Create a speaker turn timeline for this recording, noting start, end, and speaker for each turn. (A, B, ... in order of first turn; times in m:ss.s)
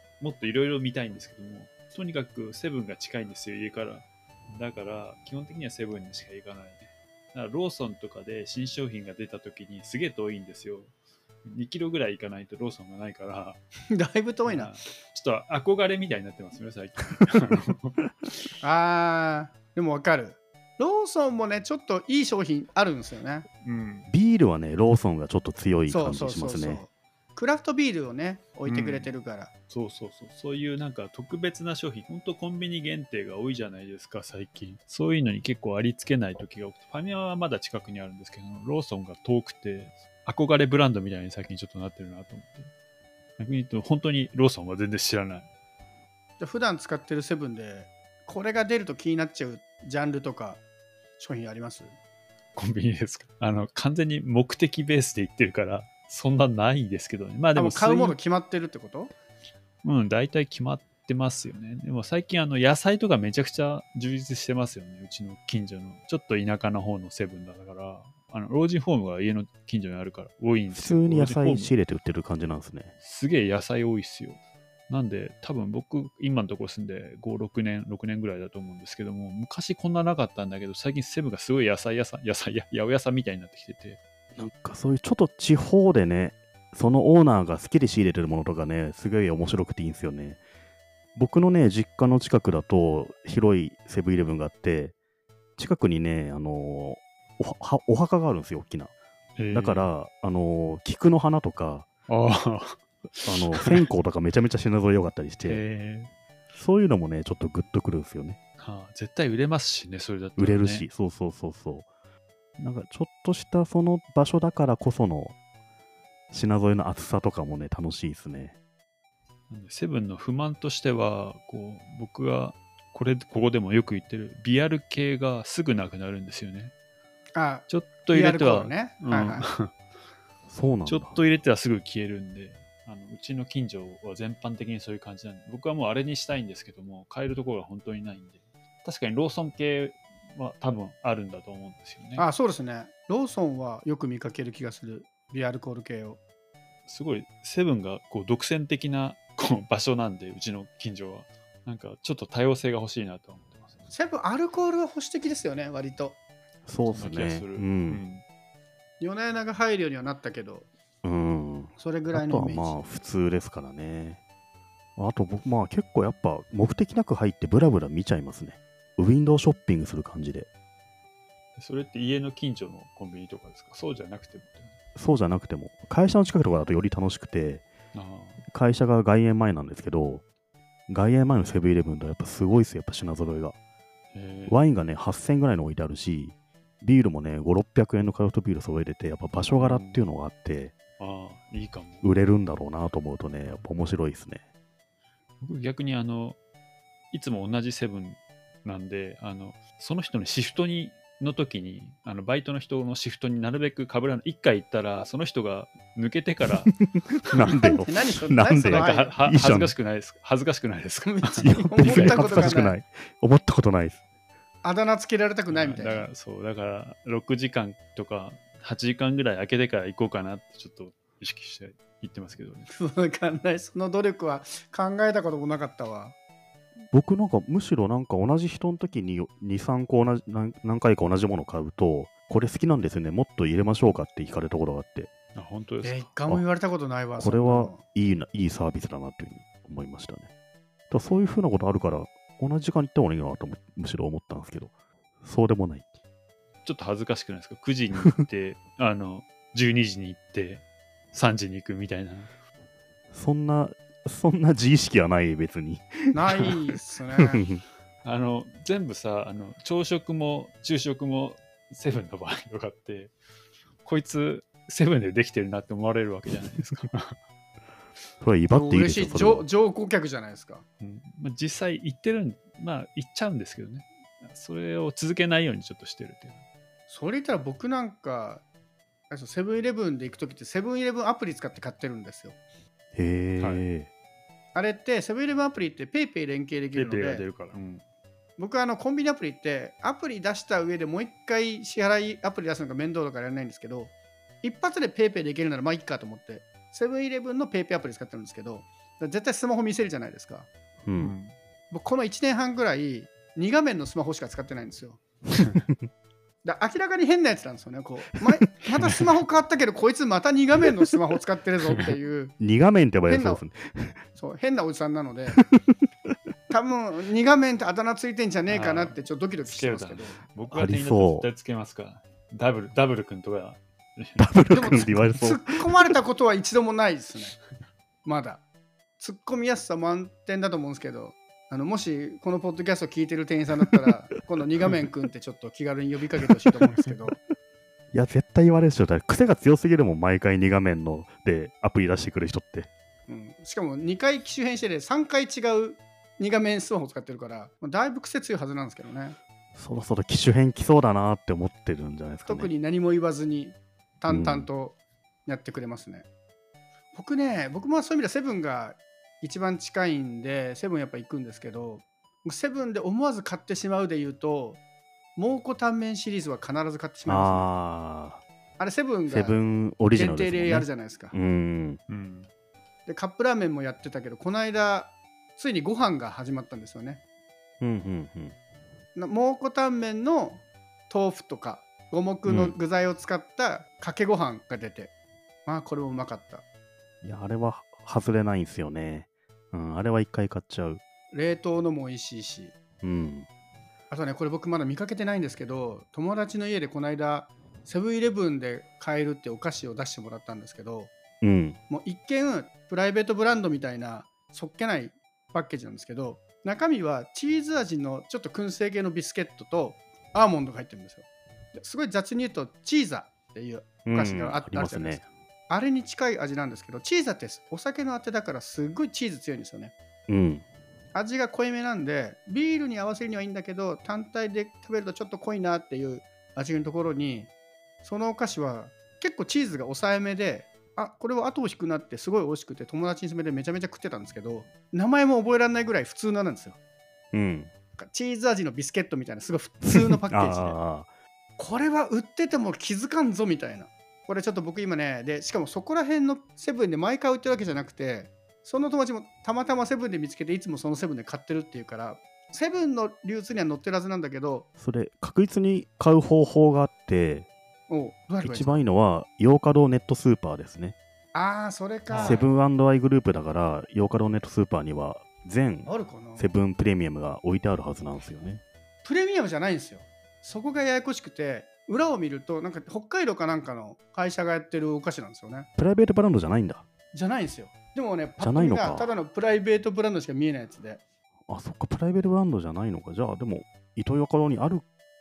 0:00.2-0:10.9 A
0:11.5-0:13.6 A
0:13.9-0:14.7 B
0:14.5-0:18.0 A
0:18.6-0:23.5 B
0:23.6-0:24.1 A
0:24.1-0:26.8 C
0:25.9-0:29.5 B
0:28.7-0:29.1 A
0:29.7-0:42.7 A
0:43.4-0:45.5 A
0:46.4-0:50.6 B
0:51.2-0:51.9 B
0:52.6-0:58.2 A
0:57.6-0:59.1 B
0:59.8-1:11.8 A
1:10.7-1:12.9 C
1:13.0-1:14.4 A
1:14.9-1:24.0 A
1:24.4-1:30.4 C
1:31.2-1:34.9 C
1:35.6-1:38.9 C
1:39.4-1:39.9 A
1:39.5-1:41.9 C
1:42.1-1:43.9 A
1:43.3-1:45.6 C
1:45.5-1:46.1 A
1:46.6-1:48.4 C
1:48.6-1:50.9 A
1:50.4-1:51.9 C
1:52.6-1:55.4 C
1:56.3-1:58.6 C
1:59.5-2:06.7 A
2:07.4-2:09.4 B
2:07.7-2:09.7 A
2:10.5-2:11.2 C
2:10.9-2:22.3 A
2:22.2-2:26.2 B
2:26.9-2:33.8 A
2:33.9-2:36.2 B
2:36.7-2:38.0 C
2:36.9-2:38.2 A
2:39.0-2:40.7 B
2:41.0-2:44.2 C
2:41.8-2:42.8 B
2:45.0-2:50.5 C
2:51.6-2:54.8 A
2:55.0-2:57.6 C
2:57.9-2:58.4 A
2:58.5-3:00.2 C
3:00.9-3:03.6 C
3:04.1-3:04.6 A
3:04.5-3:10.8 C
3:09.5-3:10.0 A
3:11.0-3:12.1 A
3:12.0-3:14.4 C
3:15.4-3:16.4 A
3:17.1-3:26.7 A
3:26.8-3:29.7 C
3:27.6-3:29.2 B
3:28.6-3:32.6 A
3:31.0-3:32.8 B
3:31.4-3:34.0 C
3:34.6-3:36.1 B
3:35.5-3:42.7 A
3:42.7-3:46.1 B
3:46.9-3:55.1 C
3:55.4-3:56.1 A
3:55.8-3:57.8 B
3:57.2-4:00.3 C
4:00.9-4:05.9 C
4:06.6-4:12.3 A
4:13.1-4:16.6 C
4:16.1-4:17.4 B
4:17.2-4:17.6 C
4:18.0-4:23.1 A
4:23.8-4:27.2 A
4:28.2-4:29.5 C
4:28.5-4:30.6 B
4:30.8-4:36.4 A
4:36.9-4:38.4 B
4:39.1-4:42.4 B
4:43.0-4:43.9 C
4:43.4-4:43.6 A
4:44.5-4:47.2 B
4:46.8-4:47.8 A
4:48.4-5:00.5 B
5:00.8-5:01.2 C
5:01.0-5:01.3 A
5:01.7-5:05.0 B
5:06.4-5:12.4 B
5:12.4-5:14.0 C
5:13.1-5:13.4 B
5:14.2-5:15.4 B
5:15.3-5:15.7 C
5:16.5-5:20.2 B
5:18.5-5:25.1 A
5:20.5-5:21.3 C
5:24.2-5:25.7 C
5:24.5-5:27.4 B
5:28.0-5:28.4 B
5:29.0-5:37.2 B
5:37.9-5:42.7 C
5:43.1-5:49.2 B
5:49.6-5:52.5 C
5:52.3-5:54.8 B
5:54.1-5:54.5 C
5:55.3-5:56.1 B
5:56.9-6:04.6 B
6:05.2-6:07.5 B
6:07.1-6:08.2 C
6:08.6-6:09.4 B
6:09.1-6:11.8 C
6:09.9-6:11.2 B
6:11.9-6:12.3 A
6:12.9-6:17.0 B
6:17.6-6:18.4 C
6:19.0-6:24.9 B
6:22.3-6:22.6 C
6:25.5-6:26.4 B
6:27.0-6:30.8 C
6:31.1-6:32.5 B
6:32.8-6:33.3 C
6:33.9-6:40.9 B
6:41.2-6:41.6 C
6:41.7-6:51.0 B
6:51.6-6:59.7 B
6:53.8-6:55.0 C
7:00.1-7:00.4 C
7:00.9-7:07.3 B
7:07.8-7:16.6 B
7:17.1-7:17.5 C
7:17.8-7:20.6 B
7:19.6-7:20.9 C
7:21.4-7:34.5 B
7:34.6-7:37.3 C
7:37.7-7:38.6 B
7:38.2-7:40.8 C
7:41.1-7:42.3 B
7:41.9-7:42.2 A
7:41.9-7:48.4 C
7:45.7-7:46.3 B
7:48.8-7:55.5 B
7:55.6-7:56.6 C
7:56.9-8:00.8 B
7:58.2-7:58.9 C
8:01.3-8:04.6 C